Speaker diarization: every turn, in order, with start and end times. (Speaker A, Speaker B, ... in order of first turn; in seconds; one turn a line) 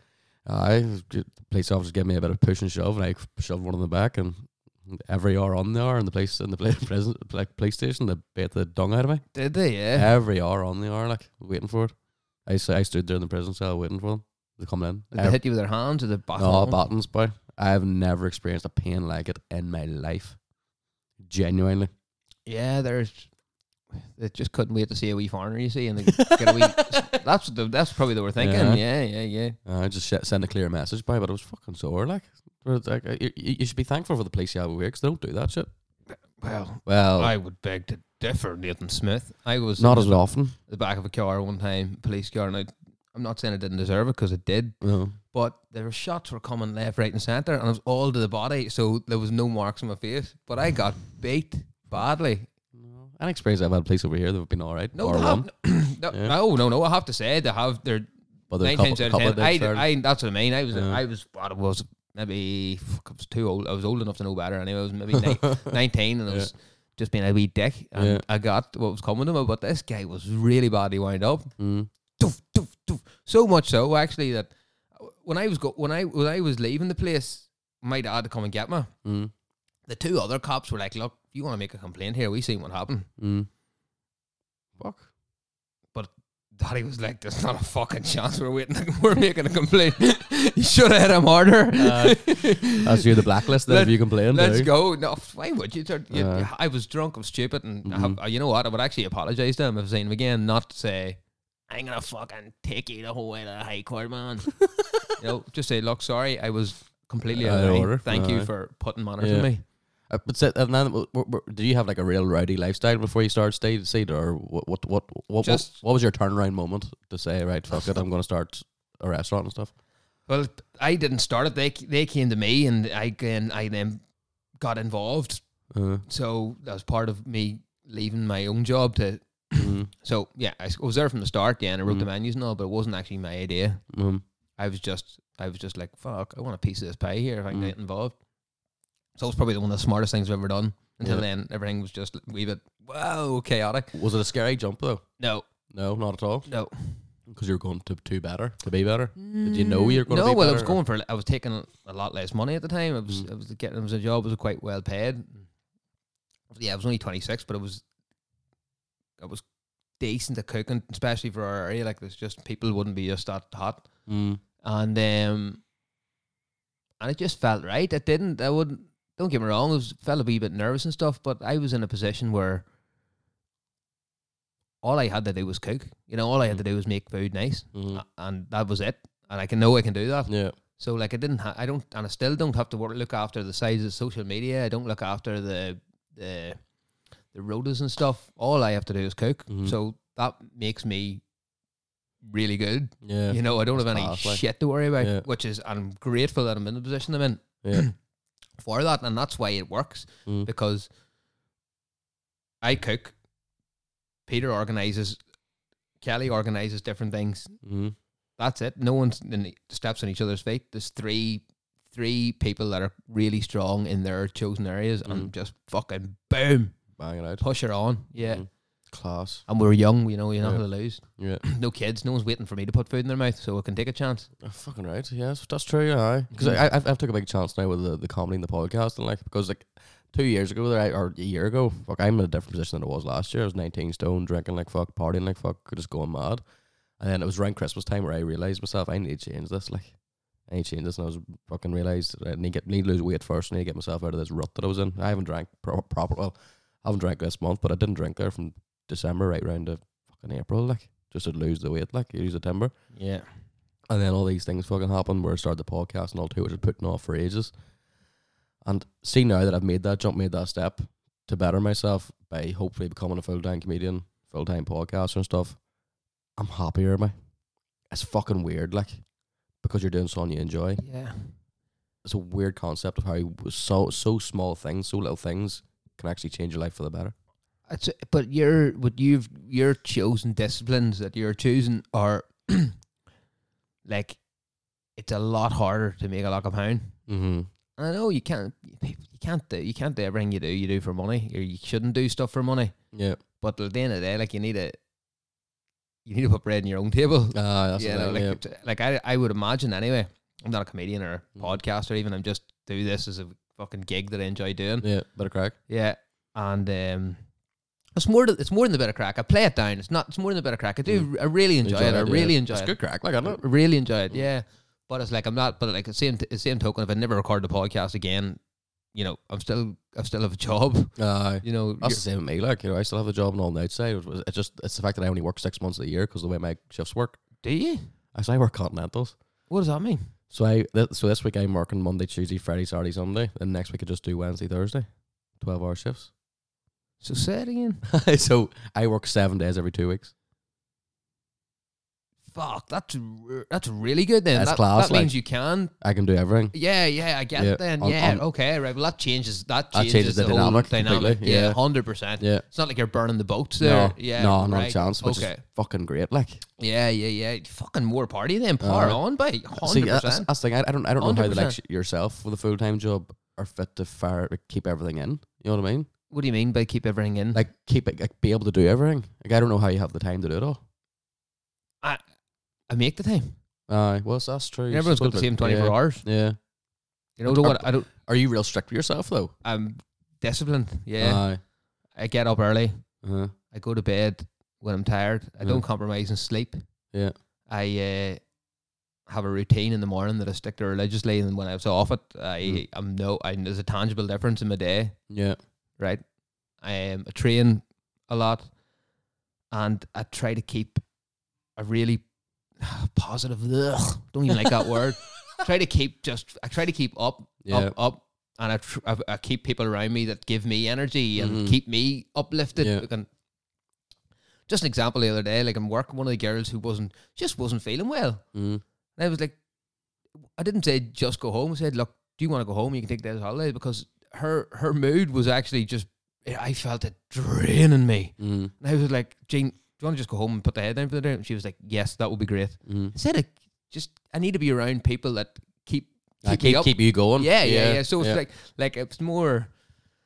Speaker A: 0.5-9.3
Speaker B: 9.3-10.1
Speaker A: 9.9-15.4
Speaker B: 15.1-16.8
Speaker A: 16.4-20.4
Speaker A: 21.2-21.9
Speaker B: 22.5-23.3
Speaker B: 23.9-29.6
Speaker A: 26.1-27.0
Speaker A: 28.4-28.8
Speaker A: 29.6-35.7
Speaker B: 36.4-52.5
Speaker A: 36.9-37.3
Speaker A: 39.8-40.5
Speaker A: 44.8-45.2
Speaker A: 52.7-55.5
Speaker B: 54.9-58.1
Speaker A: 56.1-56.3
Speaker A: 58.5-59.9
Speaker B: 58.6-71.5
Speaker A: 60.7-61.0
Speaker A: 65.2-65.7
Speaker A: 68.0-68.2
Speaker A: 71.6-71.9
Speaker B: 72.2-78.9
Speaker A: 79.0-79.3
Speaker B: 79.9-83.1
Speaker A: 83.2-83.5
Speaker A: 84.8-85.1
Speaker B: 85.9-104.6
Speaker A: 91.8-94.7
Speaker A: 96.1-96.5
Speaker A: 97.8-98.2
Speaker B: 105.2-109.6
Speaker A: 107.3-108.5
Speaker A: 109.2-109.5
Speaker A: 110.1-119.7
Speaker B: 115.4-115.8
Speaker B: 120.3-125.5
Speaker A: 125.7-126.0
Speaker B: 126.0-133.8
Speaker A: 129.6-129.9
Speaker A: 133.9-134.2
Speaker B: 134.6-138.2
Speaker B: 139.2-143.9
Speaker A: 141.0-141.3
Speaker A: 143.9-145.0
Speaker B: 145.2-145.5
Speaker A: 145.7-146.5
Speaker B: 146.5-147.0
Speaker A: 147.3-150.8
Speaker B: 149.2-155.4
Speaker B: 156.5-157.8
Speaker B: 159.2-159.4
Speaker B: 160.0-163.9
Speaker A: 164.1-164.4
Speaker B: 164.6-165.6
Speaker B: 167.0-172.7
Speaker B: 174.8-186.6
Speaker A: 177.7-178.0
Speaker A: 180.3-180.6
Speaker B: 187.3-191.2
Speaker A: 189.5-189.8
Speaker B: 192.2-197.9
Speaker A: 193.0-194.5
Speaker A: 195.0-195.2
Speaker B: 198.6-200.9
Speaker B: 202.6-203.2
Speaker B: 204.3-205.2
Speaker B: 206.0-207.6
Speaker A: 207.6-207.9
Speaker B: 208.4-218.5
Speaker A: 215.1-215.3
Speaker A: 217.0-217.4
Speaker A: 218.2-219.5
Speaker B: 219.5-224.3
Speaker A: 220.4-221.4
Speaker A: 224.4-236.4
Speaker B: 226.3-226.6
Speaker A: 237.0-252.7
Speaker B: 252.9-253.3
Speaker A: 253.9-257.5
Speaker A: 258.6-265.6
Speaker A: 266.4-267.1
Speaker A: 267.9-269.0
Speaker A: 269.6-270.8
Speaker B: 270.8-271.4
Speaker A: 272.0-277.1
Speaker B: 277.7-282.8
Speaker B: 283.9-284.2
Speaker B: 285.0-287.0
Speaker A: 287.1-287.5
Speaker B: 287.8-292.8
Speaker A: 292.9-293.2
Speaker B: 293.4-294.8
Speaker B: 296.1-304.9
Speaker A: 297.3-298.4
Speaker A: 304.8-305.6
Speaker B: 305.7-307.2
Speaker B: 307.9-318.4
Speaker A: 310.9-313.4
Speaker B: 318.9-322.0
Speaker A: 321.0-327.2
Speaker B: 327.4-327.9
Speaker A: 328.1-329.2
Speaker B: 329.5-330.1
Speaker A: 330.3-336.1
Speaker B: 337.0-337.8
Speaker A: 337.9-340.1
Speaker B: 342.3-345.7
Speaker A: 344.3-345.2
Speaker A: 345.7-346.6
Speaker B: 346.5-355.4
Speaker A: 347.4-348.2
Speaker A: 349.7-351.6
Speaker A: 352.2-352.4
Speaker A: 353.6-356.4
Speaker B: 356.6-360.3
Speaker A: 358.6-359.0
Speaker A: 359.6-365.9
Speaker B: 361.0-361.6
Speaker B: 366.1-367.4
Speaker A: 367.3-370.6
Speaker B: 372.7-373.4
Speaker A: 373.7-376.4
Speaker B: 374.7-376.1
Speaker B: 377.2-377.9
Speaker A: 377.2-379.3
Speaker B: 379.4-381.3
Speaker A: 381.0-381.4
Speaker B: 381.9-382.8
Speaker A: 383.0-383.3
Speaker B: 383.5-386.6
Speaker B: 387.5-388.2
Speaker B: 389.1-395.0
Speaker A: 395.1-395.4
Speaker B: 396.6-398.5
Speaker B: 399.5-400.8
Speaker B: 401.6-402.1
Speaker B: 402.6-413.1
Speaker A: 407.4-407.7
Speaker A: 411.2-411.6
Speaker A: 412.6-412.9
Speaker B: 414.5-418.2
Speaker A: 418.3-418.6
Speaker B: 419.0-419.4
Speaker B: 420.4-439.5
Speaker A: 428.2-428.5
Speaker A: 432.7-432.9
Speaker A: 436.2-438.2